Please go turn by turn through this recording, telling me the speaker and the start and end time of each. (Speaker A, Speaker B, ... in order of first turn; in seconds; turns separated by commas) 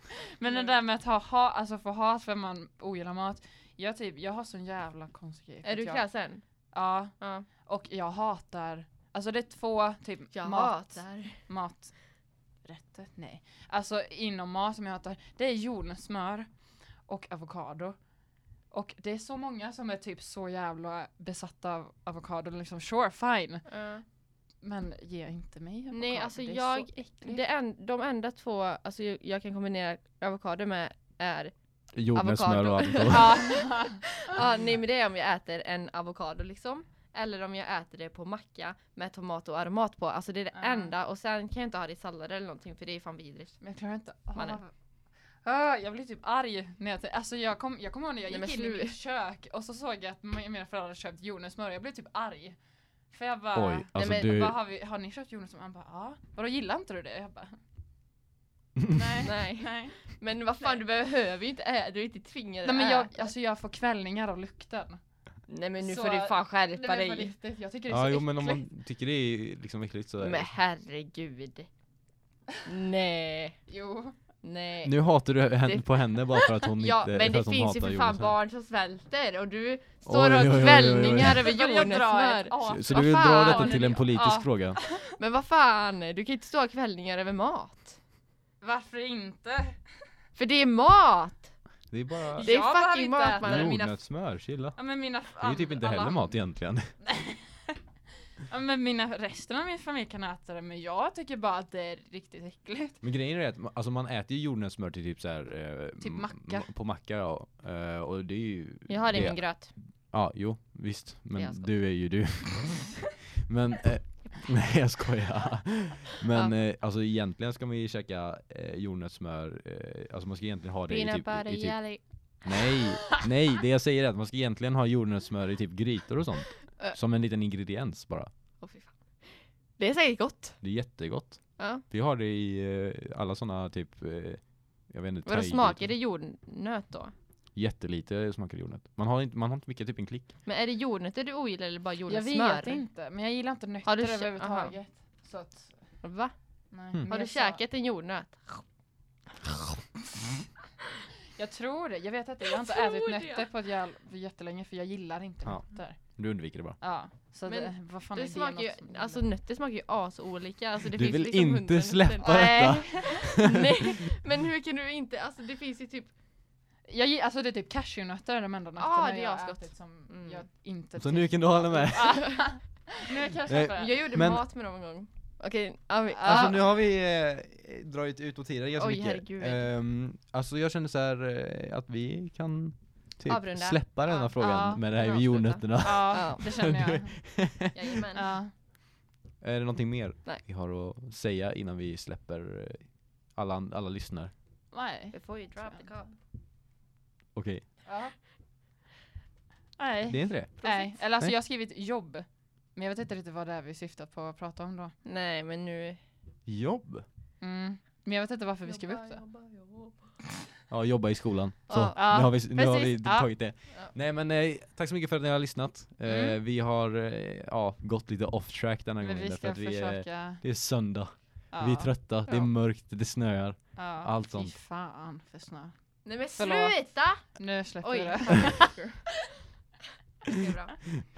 Speaker A: 0.4-6.1, Speaker B: 0.4-0.7, Speaker B: 5.6-6.4, Speaker A: 6.7-12.0, Speaker B: 7.2-7.5, Speaker B: 10.3-11.4, Speaker A: 12.6-16.5, Speaker A: 17.1-18.0, Speaker A: 18.7-23.7, Speaker B: 23.7-24.0, Speaker A: 24.6-27.4, Speaker B: 25.9-31.5, Speaker C: 31.9-33.6, Speaker B: 32.1-43.6, Speaker A: 33.1-34.1, Speaker A: 40.5-40.9, Speaker A: 43.6-44.7, Speaker B: 44.3-44.6, Speaker A: 45.4-52.6, Speaker B: 48.3-49.0, Speaker A: 53.1-57.6, Speaker C: 53.5-54.6, Speaker B: 54.0-54.3, Speaker C: 58.8-59.1, Speaker A: 58.9-60.1, Speaker B: 59.2-63.3, Speaker A: 62.6-65.0, Speaker B: 65.5-67.3, Speaker A: 65.8-68.6, Speaker C: 67.9-70.5, Speaker B: 70.2-71.7, Speaker B: 72.6-73.6, Speaker A: 73.7-74.1, Speaker B: 74.4-75.0, Speaker C: 74.8-78.3, Speaker B: 75.6-83.9, Speaker C: 80.0-81.5, Speaker A: 81.3-85.1, Speaker C: 82.7-84.8, Speaker B: 84.9-88.0, Speaker A: 88.6-89.8, Speaker B: 90.3-91.5, Speaker C: 91.9-92.5, Speaker A: 92.3-93.8, Speaker B: 92.4-94.0, Speaker C: 93.4-94.8, Speaker A: 94.8-96.3, Speaker C: 95.3-96.9, Speaker A: 97.0-97.8, Speaker A: 98.5-103.0, Speaker C: 103.0-128.3, Speaker A: 106.0-106.7, Speaker B: 108.9-109.7, Speaker B: 111.3-111.8, Speaker B: 120.9-122.8, Speaker B: 128.6-130.6, Speaker C: 130.6-135.9, Speaker B: 131.6-131.8, Speaker B: 135.2-137.1, Speaker C: 137.5-140.3, Speaker B: 140.4-142.8, Speaker A: 142.1-146.0, Speaker B: 143.8-144.8, Speaker B: 146.0-146.3, Speaker A: 146.7-147.6, Speaker B: 147.1-148.6, Speaker A: 151.3-156.2, Speaker B: 152.5-153.4, Speaker C: 155.4-156.8, Speaker A: 156.8-159.2, Speaker B: 157.4-166.1, Speaker C: 160.9-163.7, Speaker A: 162.2-163.2, Speaker A: 166.9-174.1, Speaker B: 168.8-170.4, Speaker C: 171.0-172.6, Speaker B: 171.9-173.0, Speaker C: 173.5-174.4, Speaker B: 173.6-176.7, Speaker A: 176.1-176.6, Speaker C: 176.2-187.9, Speaker B: 178.8-179.7, Speaker B: 183.2-184.1, Speaker A: 184.1-184.8, Speaker B: 184.8-186.7, Speaker A: 185.8-187.3, Speaker B: 187.7-188.3, Speaker A: 188.1-188.5, Speaker C: 189.4-194.3, Speaker A: 194.7-195.9, Speaker B: 195.1-196.2, Speaker C: 197.3-197.7, Speaker A: 197.8-198.1, Speaker A: 199.8-204.9, Speaker C: 200.1-201.3, Speaker B: 200.6-200.9, Speaker B: 205.0-206.0, Speaker C: 206.4-207.1, Speaker A: 207.4-209.2, Speaker B: 208.6-210.2, Speaker C: 210.7-224.6, Speaker B: 211.7-212.0, Speaker A: 211.8-213.3, Speaker A: 216.0-216.4, Speaker A: 219.0-220.4, Speaker A: 221.5-222.5, Speaker A: 223.8-225.7, Speaker B: 226.0-229.1, Speaker A: 226.4-228.7, Speaker B: 230.2-230.8